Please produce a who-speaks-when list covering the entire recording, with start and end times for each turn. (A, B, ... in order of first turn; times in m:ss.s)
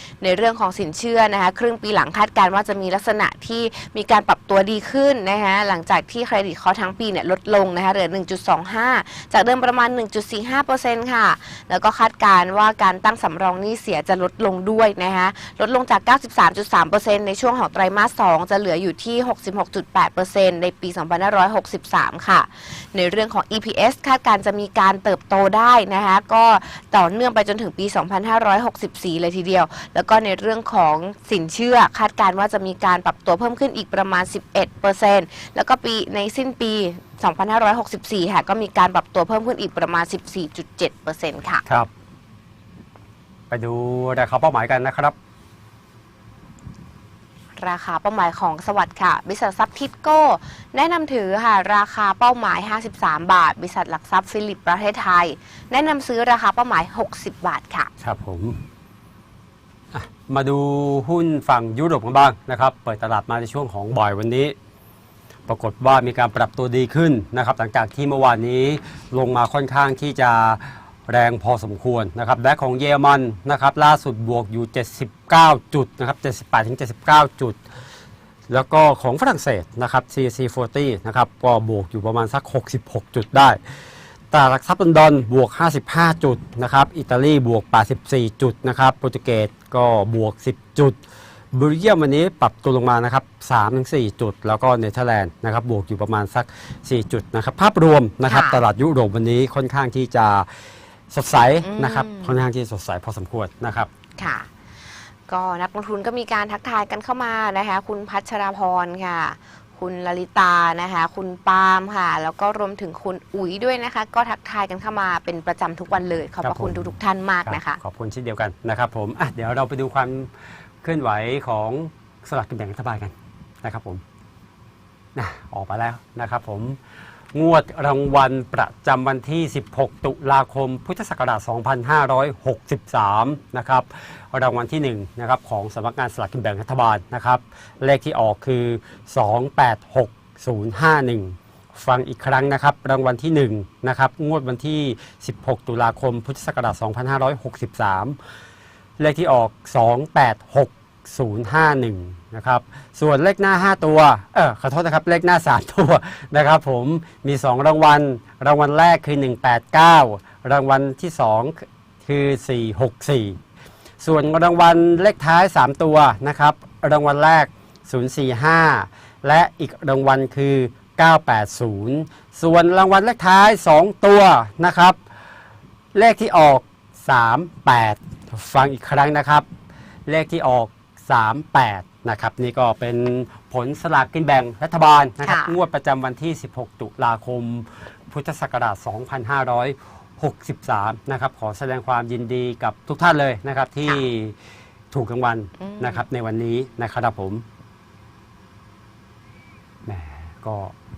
0:00.2-0:41.6 A
0:43.5-0:45.1 B
0:47.6-0:57.9 A
0:58.0-0:58.6 B
0:59.9-1:04.5 B
1:05.5-1:17.6 B
1:18.5-1:23.6 B
1:24.3-1:31.0 B
1:31.5-1:40.5 B
1:38.2-1:38.6 A
1:41.1-1:43.9 B
1:41.6-1:42.4 A
1:44.2-1:44.5 A
1:45.3-1:57.8 A
1:56.4-1:56.9 B
1:57.4-2:00.3 B
2:00.8-2:04.0 B
2:05.1-2:06.8 B
2:07.3-2:28.2 B
2:29.0-2:43.4 B
2:44.0-2:55.0 B
2:55.9-2:59.4 B
3:00.1-3:14.3 B
3:05.2-3:05.6 A
3:14.9-3:17.4 B
3:15.6-3:16.0 A
3:19.8-3:20.7 B